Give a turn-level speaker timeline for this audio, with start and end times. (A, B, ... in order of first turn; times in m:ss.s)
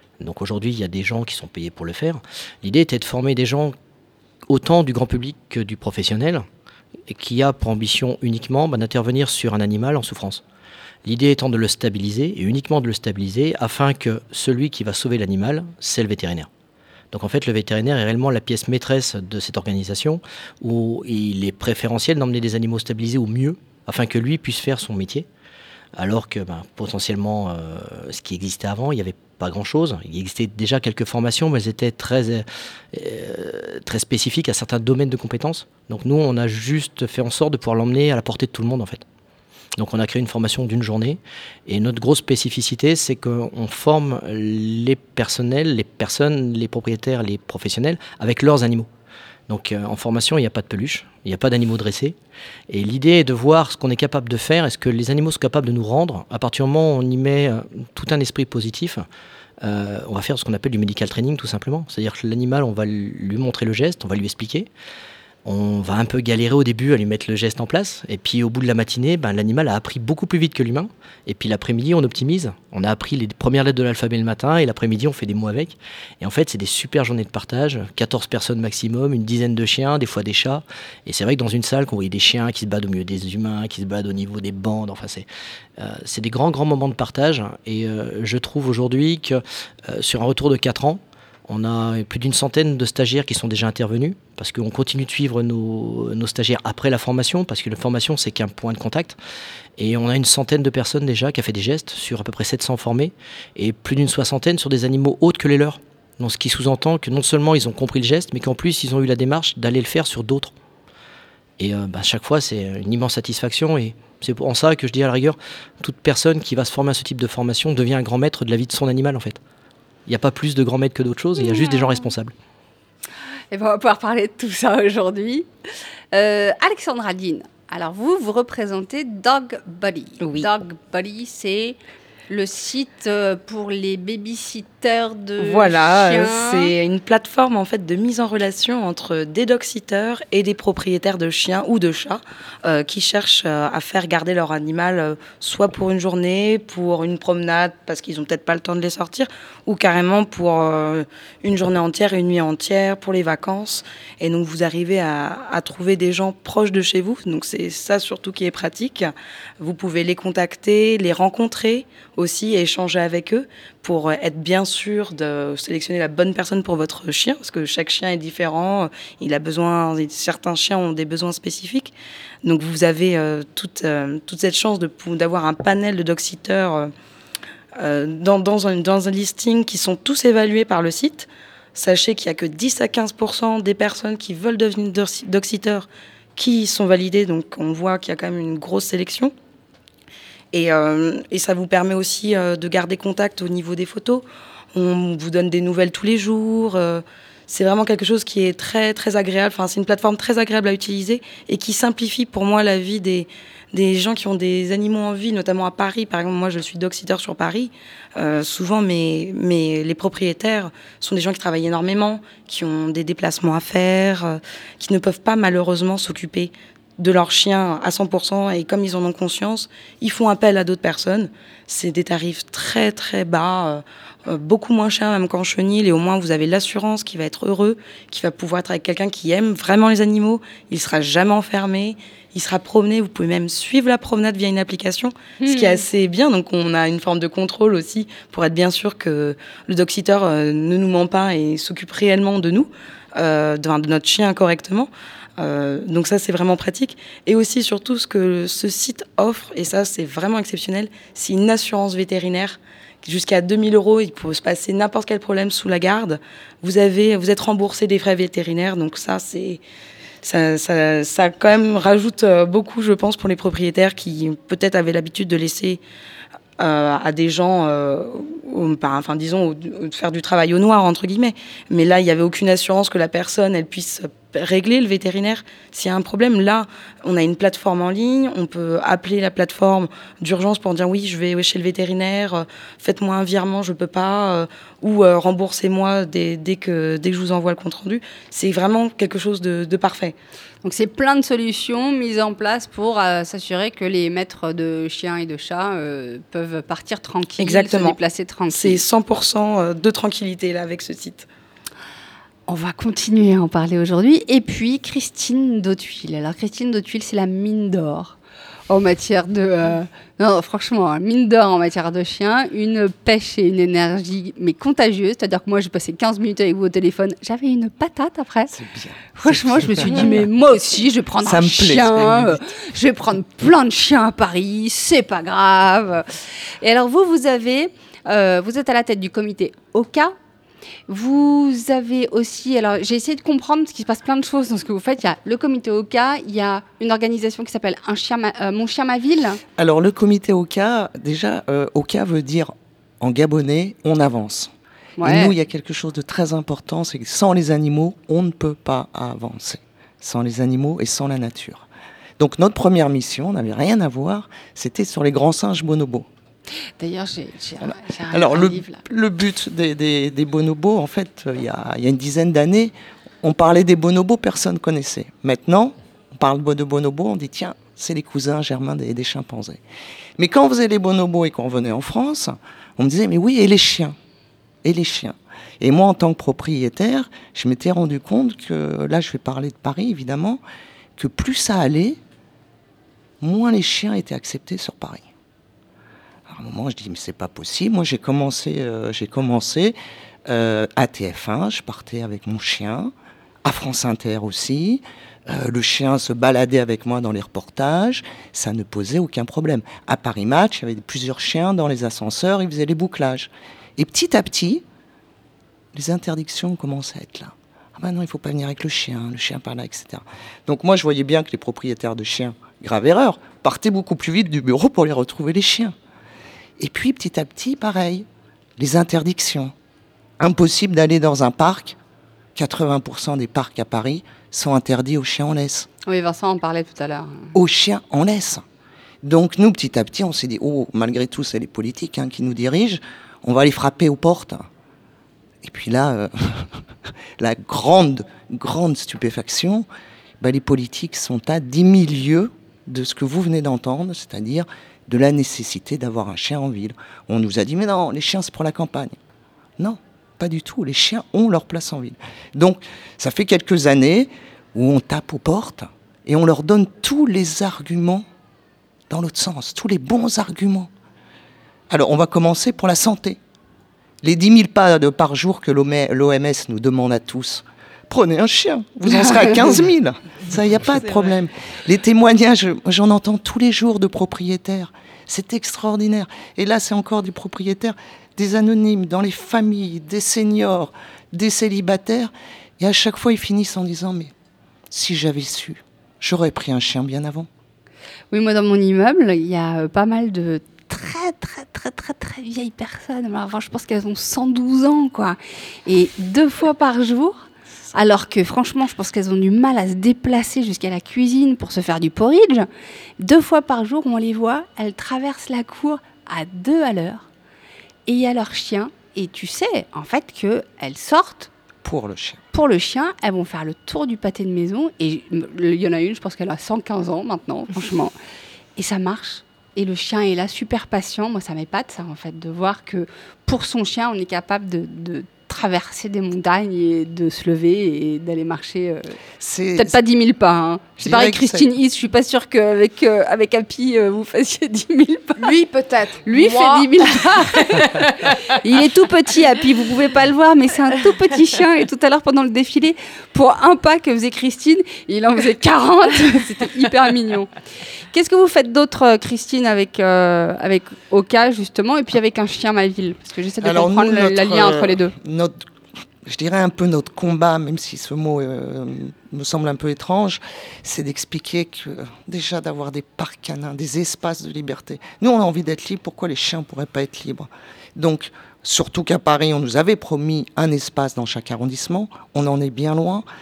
0:00.2-0:03.8 A
0:04.5-0:06.5 A
0:07.1-0:10.4 A
0:11.0-0:16.5 A
0:17.1-0:25.3 A
0:26.0-0:39.0 A
0:39.8-0:48.9 A
0:49.5-0:52.2 A
0:52.7-0:59.0 A
0:59.6-1:04.7 A
1:05.4-1:25.3 A
1:25.8-1:39.2 A
1:39.8-1:50.5 A
1:51.6-1:59.4 A
2:00.1-2:02.3 A
2:03.5-2:05.5 B
2:06.1-2:11.8 B
2:10.2-2:10.5 C
2:12.3-2:16.7 B
2:15.4-2:56.9 C
2:57.8-3:09.3 C
3:10.5-4:19.6 C
3:55.4-3:55.8 B
4:20.2-4:25.8 C
4:26.6-4:50.2 C
4:50.6-4:58.8 B
4:57.4-4:58.0 C
4:58.5-5:01.3 C
5:02.5-5:08.2 B
5:08.7-5:18.6 B
5:18.5-5:20.2 D
5:19.2-5:30.1 B
5:21.2-5:22.5 D
5:30.9-5:39.4 B
5:39.6-5:51.7 D
5:45.0-5:45.3 B
5:52.2-5:56.1 D
5:56.8-5:58.8 B
5:57.6-6:09.6 D
6:10.2-6:14.0 D
6:14.6-6:20.4 D
6:21.0-6:22.0 D
6:23.2-6:25.1 D
6:26.3-6:29.8 D
6:30.3-6:32.9 D
6:33.4-6:44.6 D
6:45.7-6:55.8 D
6:56.6-6:58.1 D
6:58.6-6:59.5 D
7:00.2-7:01.8 D
7:02.4-7:05.7 D
7:05.9-7:07.3 B
7:07.3-7:08.4 D
7:09.0-7:14.5 D
7:15.4-7:16.6 D
7:17.2-7:19.7 D
7:20.2-7:29.0 D
7:29.6-7:38.1 D
7:38.9-7:40.7 D
7:41.7-7:43.2 D
7:44.0-8:04.1 D
8:04.7-8:07.3 D
8:08.1-8:22.5 B
8:23.0-8:27.1 B
8:27.9-8:31.3 B
8:31.6-8:32.2 D
8:32.3-8:37.9 B
8:38.6-8:49.0 B
8:49.2-8:49.8 D
8:49.6-8:55.3 B
8:50.8-8:51.5 D
8:55.2-8:57.8 E
8:56.1-9:07.3 B
9:07.9-9:14.9 B
9:13.4-9:15.4 D
9:16.0-9:33.1 D